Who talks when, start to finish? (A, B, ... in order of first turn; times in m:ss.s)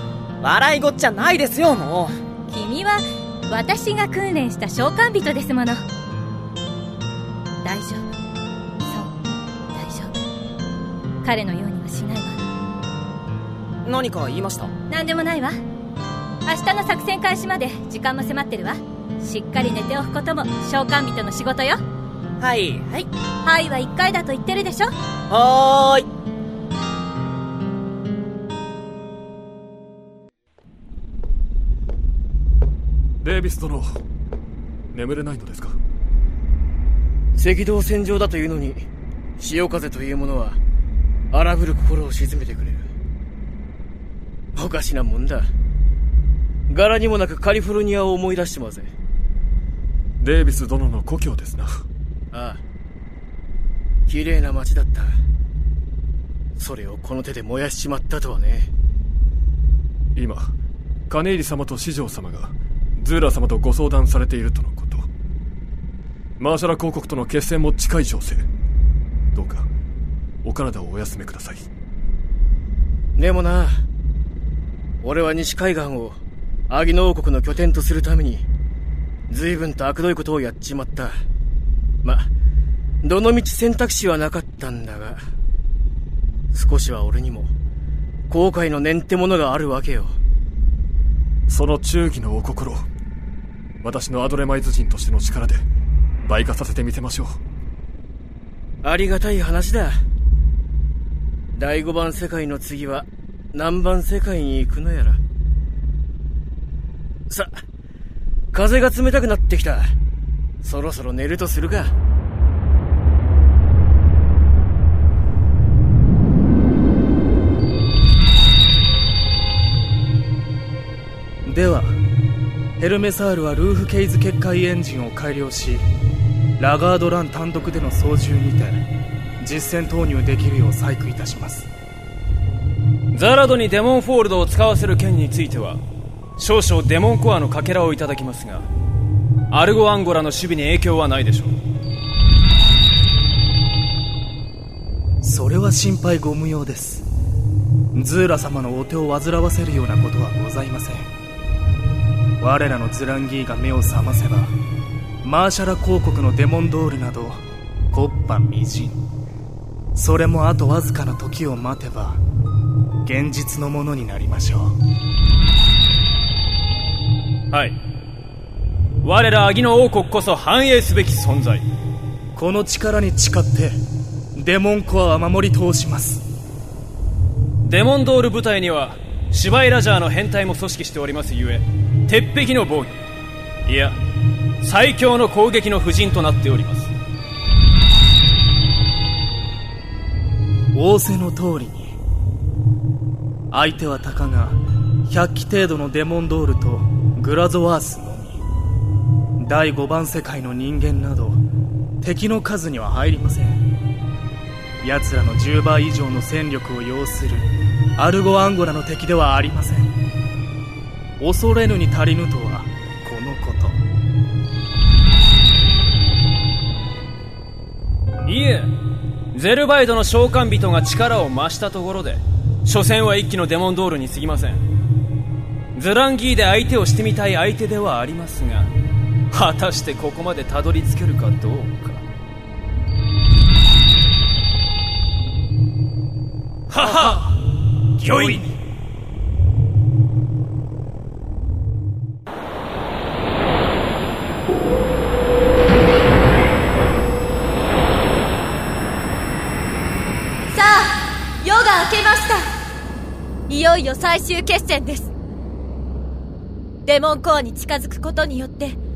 0:00.4-0:02.1 A
0:02.5-0:05.8 B
0:07.6-0:08.0 B
0:09.7-0:10.1 B
0:11.2-0:12.4 B
0:13.8-0:14.7 A
0:14.9-0:15.6 B
0:16.4-0:21.8 B
0:22.4-0:23.1 A
0:23.4-0:24.9 B
0:25.3-0:26.1 A
0:33.2-0:34.0 C
0:34.9-0:35.8 C
0:37.4-0:38.8 D
0:39.4-0:40.6 D
0:41.3-0:42.9 D
0:44.6-0:45.5 D
0:46.7-0:48.9 D
0:50.2-0:51.8 C
0:52.3-0:52.6 D
0:54.1-0:55.2 D
0:56.6-0:58.7 D
1:00.2-1:00.5 C
1:01.1-1:05.1 C
1:06.4-1:08.4 C
1:09.3-1:09.7 C
1:10.4-1:11.7 C
1:13.2-1:13.8 D
1:15.0-1:18.4 D
1:19.3-1:21.2 D
1:22.0-1:22.3 D
1:23.0-1:25.2 D
1:26.5-1:27.5 D
1:28.3-1:30.1 D
1:31.5-1:32.9 C
1:33.8-1:35.6 C
1:36.2-1:37.4 C
1:38.8-1:40.0 D
1:41.6-1:45.2 D
1:47.3-1:47.6 D
1:48.5-1:49.9 D
1:50.6-1:51.9 D
2:01.4-2:02.0 E
2:02.8-2:05.8 E
2:06.6-2:08.8 E
2:09.4-2:11.7 E
2:13.1-2:15.8 F
2:16.4-2:18.7 F
2:19.5-2:21.5 F
2:25.2-2:27.0 E
2:27.9-2:31.1 E
2:32.4-2:34.5 E
2:35.2-2:37.4 E
2:37.9-2:39.0 E
2:40.0-2:42.2 E
2:43.0-2:44.8 E
2:49.0-2:51.6 F
2:52.4-2:53.8 E
2:54.4-2:56.2 E
2:57.6-3:02.9 F
3:03.6-3:04.0 F
3:04.6-3:06.9 F
3:10.7-3:12.0 E
3:13.5-3:18.4 E
3:19.4-3:21.4 E
3:22.0-3:23.6 E
3:24.8-3:29.9 E
3:31.2-3:33.8 E
3:38.2-3:38.7 F
3:39.3-3:44.6 F
3:45.7-3:48.7 F
3:49.3-3:52.0 F
3:56.7-3:57.1 F
3:58.0-3:58.4 F
4:10.5-4:12.5 G
4:13.5-4:15.1 G
4:16.8-4:18.8 G